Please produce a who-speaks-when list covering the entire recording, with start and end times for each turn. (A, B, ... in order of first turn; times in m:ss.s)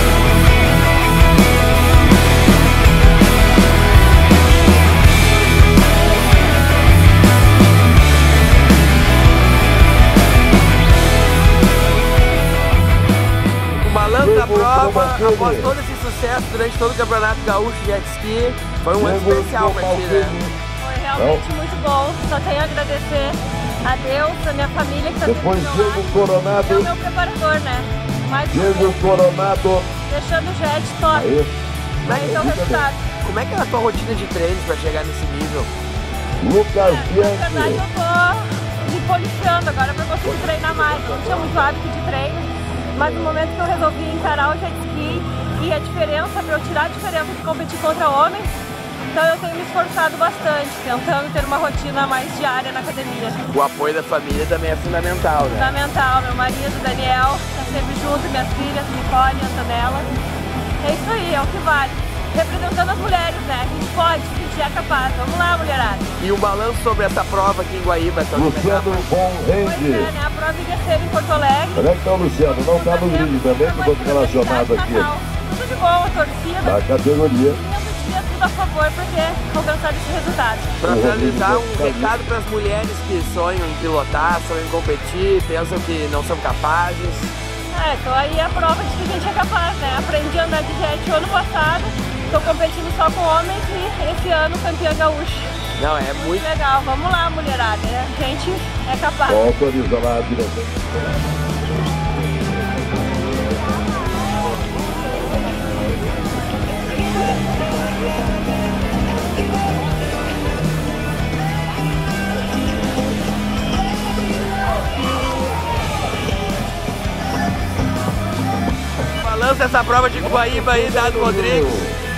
0:13.8-0:20.4 A
0:14.2-0:15.7 B
0:19.0-0:20.5 B
0:20.8-0:29.0 C
0:21.2-0:21.4 B
0:25.2-0:26.9 B
0:28.5-0:29.9 B
0:30.1-0:31.3 C
0:31.1-0:31.5 B
0:32.0-0:32.9 B
0:32.1-0:33.0 C
0:33.1-0:35.7 A
0:36.4-0:37.8 B
0:36.7-0:48.5 C
0:40.3-0:41.6 B
0:49.1-0:53.4 C
0:53.5-0:55.7 A
0:55.5-1:00.1 C
1:00.8-1:06.1 C
1:06.2-1:09.0 A
1:08.3-1:10.1 B
1:09.6-1:11.9 C
1:11.8-1:15.1 B
1:12.5-1:16.9 C
1:16.6-1:17.6 B
1:17.4-1:20.7 C
1:20.8-1:27.3 A
1:20.8-1:22.2 B
1:27.7-1:35.5 C
1:35.8-1:36.5 A
1:36.1-1:39.5 C
1:39.3-1:40.7 B
1:59.2-2:01.8 A
2:00.4-2:02.0 B